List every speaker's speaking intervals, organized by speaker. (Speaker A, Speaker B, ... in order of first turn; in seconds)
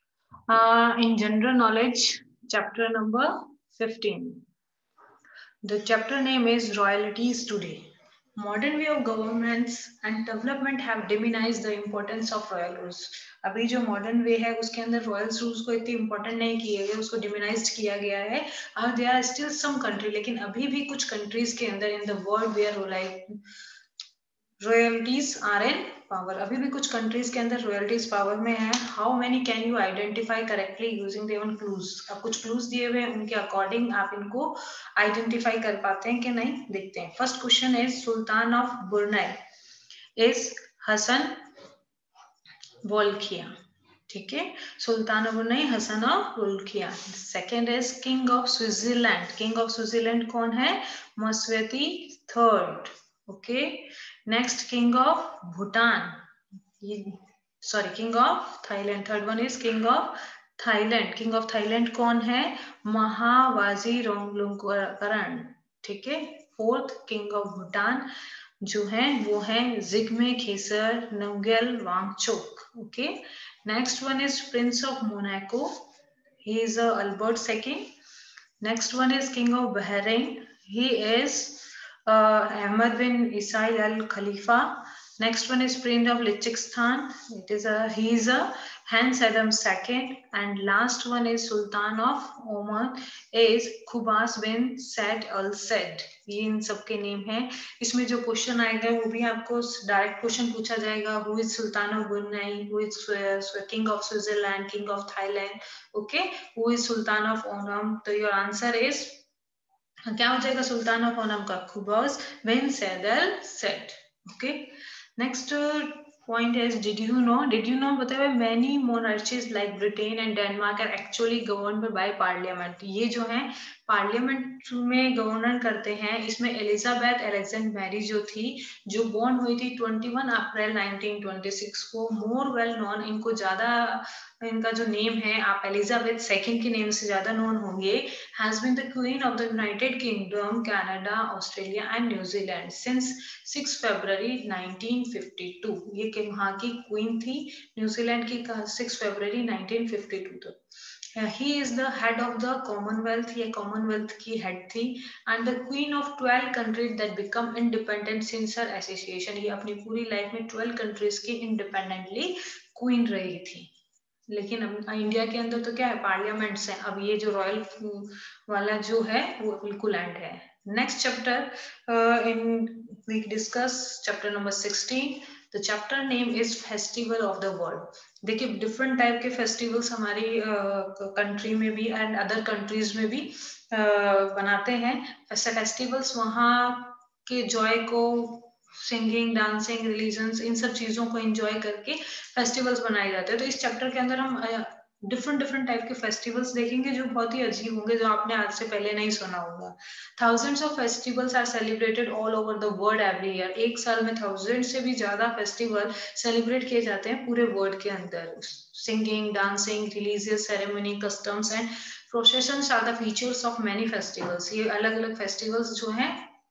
Speaker A: 0.5-4.4, 5.6-7.8, 8.3-23.3, 24.6-39.4, 40.2-41.4, 42.8-43.5, 44.1-56.2, 56.8-68.1, 68.6-75.8, 76.4-77.9, 78.6-109.2, 110.1-150.6, 151.2-163.7, 164.3-216.2